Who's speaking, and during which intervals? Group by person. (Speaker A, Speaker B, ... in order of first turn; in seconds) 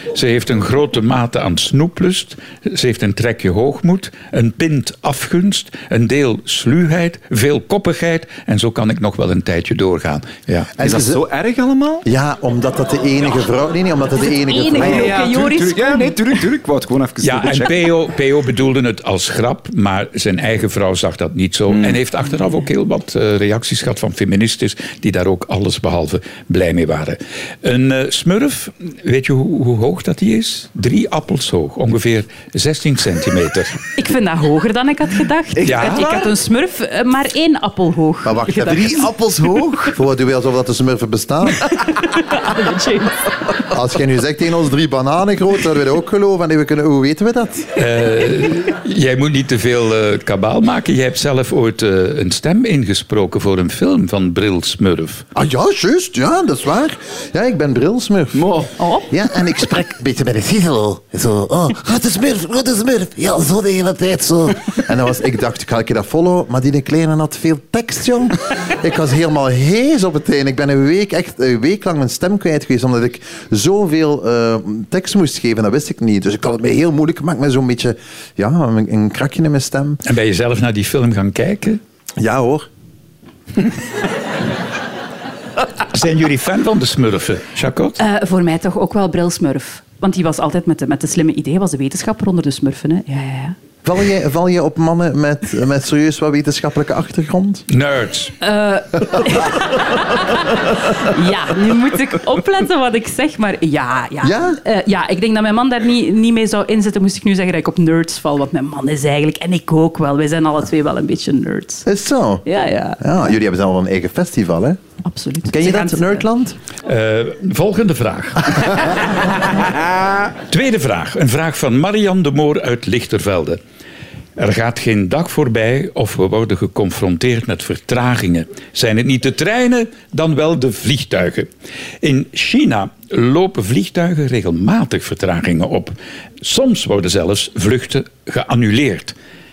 Speaker A: 0.1-10.7, 17.2-33.8, 35.6-36.2, 47.7-55.2, 80.0-81.8, 85.9-88.0, 97.7-98.4, 116.8-119.7, 120.5-123.6, 124.4-131.5, 132.0-139.1
Speaker B: 10.8-11.2, 12.0-15.2, 38.2-41.7, 43.6-47.7, 55.3-58.5, 59.0-80.0, 82.2-82.7, 93.8-97.6, 104.2-104.6, 111.8-112.4, 113.0-114.8, 115.5-116.6
Speaker C: 10.8-12.0, 14.7-17.9, 21.7-22.0, 35.5-36.3, 58.3-58.9
Speaker D: 14.3-16.2, 33.9-39.1, 41.6-43.6, 88.0-93.6, 98.4-111.9, 112.4-113.0, 115.0-116.2